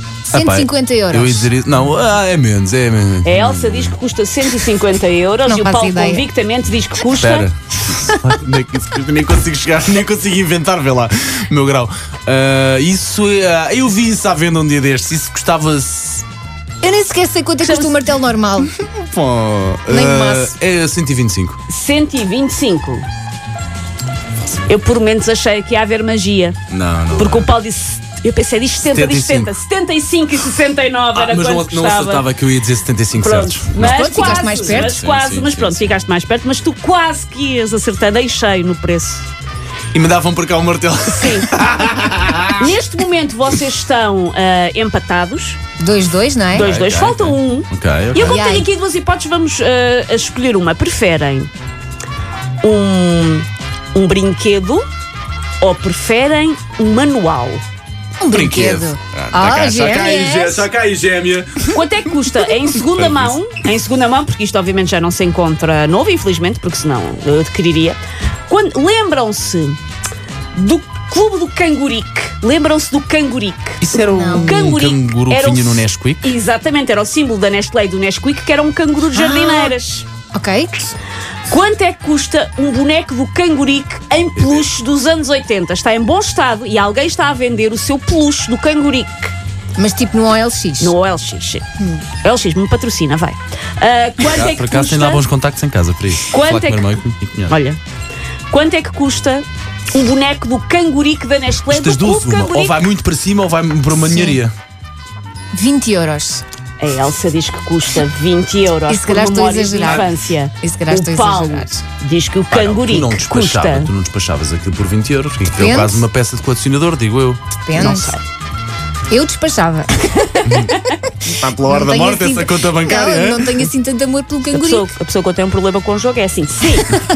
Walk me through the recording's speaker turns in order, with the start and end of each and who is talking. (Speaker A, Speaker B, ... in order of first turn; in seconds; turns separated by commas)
Speaker A: 0.3-4.0, Speaker B: 0.3-1.5, Speaker C: 3.2-7.5, Speaker B: 5.5-6.2, Speaker A: 7.1-16.2, Speaker B: 16.8-18.8, Speaker C: 17.6-18.1, Speaker A: 18.6-21.6, Speaker B: 19.9-20.5, Speaker C: 21.7-23.1, Speaker C: 24.6-26.6, Speaker A: 26.7-27.5, Speaker C: 27.1-32.3, Speaker A: 28.8-29.5, Speaker A: 31.1-35.9, Speaker C: 33.2-39.2, Speaker B: 33.8-34.9, Speaker A: 39.9-42.7, Speaker C: 41.1-41.5, Speaker C: 42.6-45.6, Speaker B: 45.8-46.7, Speaker C: 46.5-51.5, Speaker A: 46.5-48.6, Speaker B: 48.1-48.7, Speaker C: 52.6-54.8, Speaker C: 55.6-57.6, Speaker B: 58.2-60.7, Speaker A: 58.3-61.7, Speaker C: 61.7-69.8, Speaker A: 62.8-63.4, Speaker C: 70.5-80.0, Speaker A: 73.8-76.3, Speaker B: 74.0-74.6, Speaker B: 79.1-79.7, Speaker B: 80.3-80.9, Speaker C: 81.5-89.3, Speaker A: 84.3-84.7, Speaker B: 89.8-90.9, Speaker C: 90.8-91.7, Speaker B: 91.8-92.0, Speaker C: 92.2-95.2, Speaker A: 94.2-97.5, Speaker C: 96.3-96.9, Speaker C: 97.5-97.8, Speaker C: 98.5-102.8, Speaker A: 101.7-104.5, Speaker B: 104.0-104.4, Speaker B: 105.5-106.4, Speaker C: 106.8-113.9, Speaker B: 108.9-111.8, Speaker A: 109.8-110.1, Speaker A: 112.5-118.0, Speaker B: 115.5-116.1, Speaker B: 117.6-118.1, Speaker C: 117.7-118.2, Speaker B: 119.1-124.9, Speaker A: 120.4-123.7, Speaker C: 124.5-127.0